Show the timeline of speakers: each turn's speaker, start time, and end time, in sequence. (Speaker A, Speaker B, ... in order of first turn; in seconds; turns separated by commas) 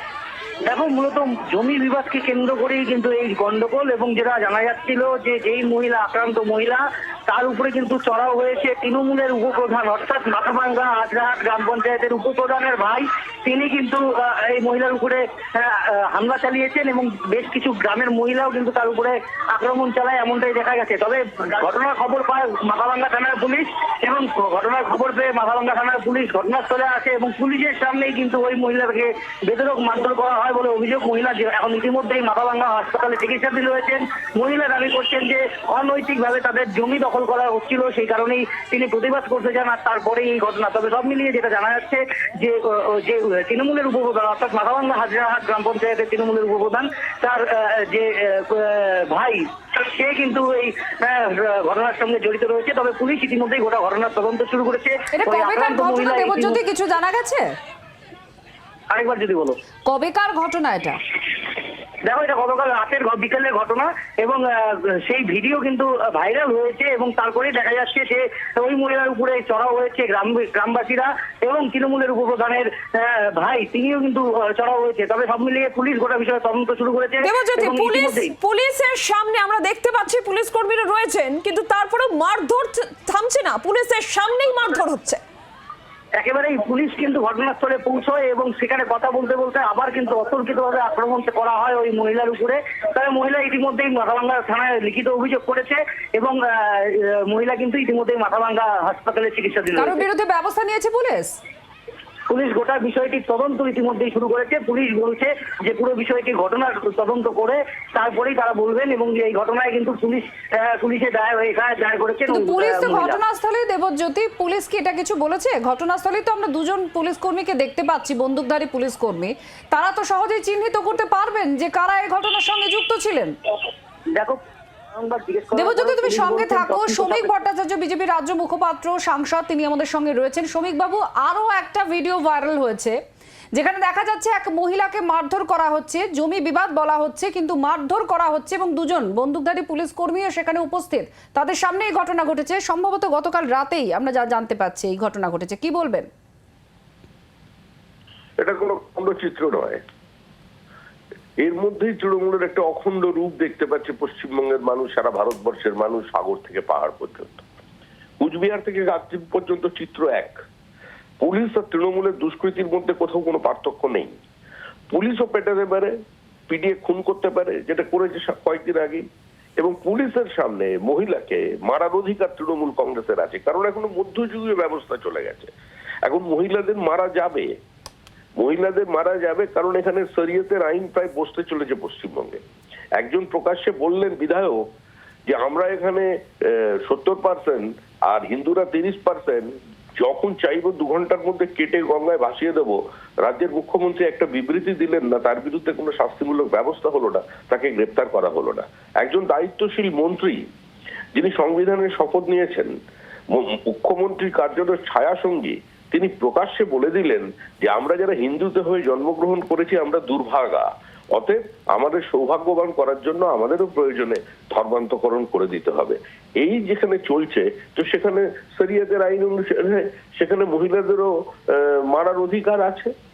Speaker A: 0.7-56.6, Speaker B: 55.1-57.5, Speaker A: 58.9-59.6, Speaker B: 59.9-61.0, Speaker A: 62.1-78.2, Speaker C: 77.2-85.2, Speaker A: 86.2-100.0, Speaker B: 99.7-101.3, Speaker A: 102.3-113.2, Speaker B: 112.3-123.3, Speaker A: 124.9-127.4, Speaker B: 125.5-133.0, Speaker B: 133.5-146.1, Speaker D: 148.4-149.8, Speaker D: 151.4-157.4, Speaker D: 158.2-160.3, Speaker D: 161.2-164.1, Speaker D: 164.9-165.9, Speaker D: 166.5-169.0, Speaker D: 169.6-175.5, Speaker D: 176.1-177.5, Speaker D: 178.4-182.4, Speaker D: 183.0-184.6, Speaker D: 185.3-200.4, Speaker D: 201.2-202.7, Speaker D: 203.3-222.9